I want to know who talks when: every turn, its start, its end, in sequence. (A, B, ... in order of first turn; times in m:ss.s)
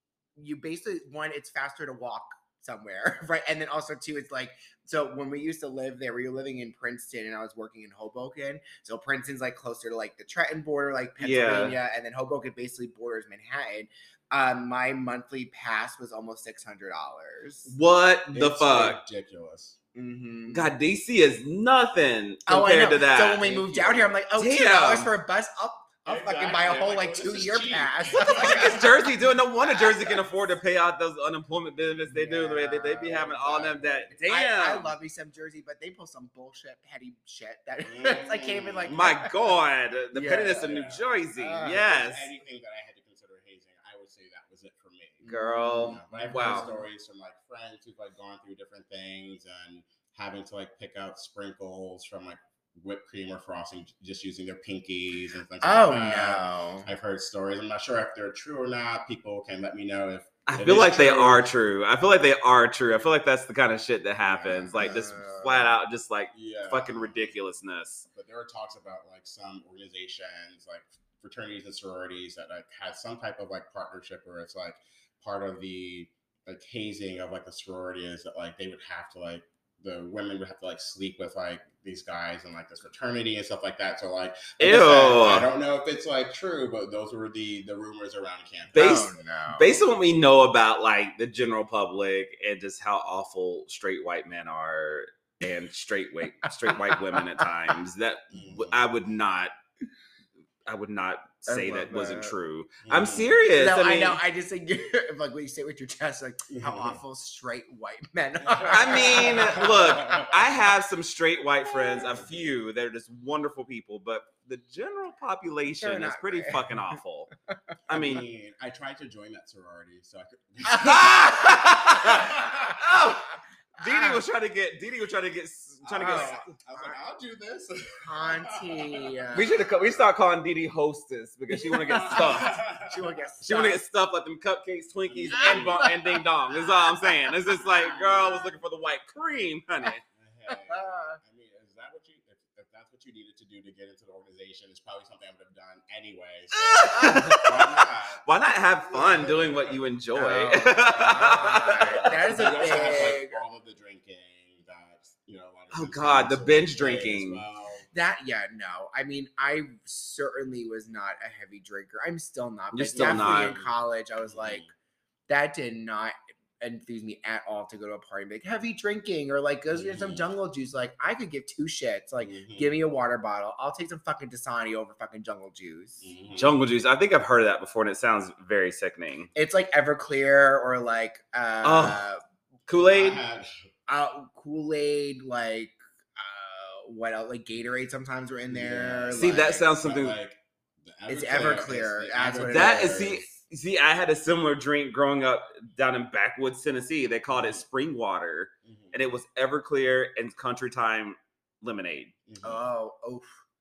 0:00.4-0:17.7 A
0:11.2-0:11.8 B
0:17.7-0:19.0 B
0:18.3-0:19.8 C
0:20.0-0:20.7 A
0:20.5-0:23.7 B
0:22.5-0:28.8 A
0:23.4-0:24.1 C
0:24.4-0:25.1 B
0:26.1-0:30.2 C
0:28.2-0:34.9 B
0:32.1-0:33.2 A
0:32.7-0:34.2 C
0:34.3-0:39.3 A
0:37.8-0:38.9 C
0:38.9-0:42.3 B
0:40.1-0:40.8 A
0:40.6-0:45.3 C
0:41.4-0:41.8 A
0:45.2-0:46.8 A
0:45.3-0:46.7 B
0:45.8-1:01.4 C
0:55.6-0:56.9 A
1:00.5-1:08.1 B
1:04.2-1:05.0 C
1:04.8-1:05.7 A
1:06.3-1:07.4 C
1:08.1-1:29.1 C
1:24.6-1:25.5 B
1:28.7-1:39.5 B
1:28.8-1:29.8 A
1:36.4-1:37.8 A
1:38.3-1:38.8 C
1:40.7-1:44.2 B
1:41.5-1:42.3 A
1:42.8-1:43.4 C
1:43.6-1:50.2 A
1:46.5-1:47.0 C
1:48.4-1:50.7 C
1:48.7-1:57.3 B
1:52.1-1:52.5 C
1:55.8-1:57.0 A
1:57.9-1:58.2 B
1:57.9-2:03.0 C
2:00.8-2:06.5 B
2:01.7-2:03.1 A
2:03.8-2:04.2 A
2:05.8-2:10.0 C
2:06.0-2:07.0 A
2:08.0-2:09.6 A
2:09.3-2:12.6 B
2:11.5-2:13.8 A
2:11.8-2:13.6 C
2:13.4-2:20.0 B
2:15.0-2:16.0 C
2:15.4-2:16.1 A
2:17.6-2:18.6 C
2:20.1-2:28.2 C
2:20.5-2:21.2 A
2:26.6-2:32.9 B
2:26.9-2:27.4 A
2:28.9-2:29.8 C
2:30.2-2:33.4 A
2:30.8-2:37.9 C
2:35.7-2:37.4 B
2:37.9-2:44.7 A
2:42.7-2:43.6 B
2:42.9-2:43.7 C
2:44.2-2:44.7 C
2:45.3-2:56.1 A
2:49.7-2:50.3 C
2:52.2-2:52.7 C
2:56.0-2:56.6 C
2:56.4-2:59.3 B
2:59.4-3:02.2 A
3:01.6-3:02.0 B
3:02.7-3:03.2 B
3:02.8-3:03.5 C
3:03.9-3:09.6 A
3:08.5-3:13.3 C
3:09.2-3:10.2 B
3:11.1-3:13.1 A
3:12.5-3:22.1 B
3:17.3-3:17.6 C
3:18.6-3:19.1 C
3:22.3-3:22.7 C
3:22.4-3:23.3 A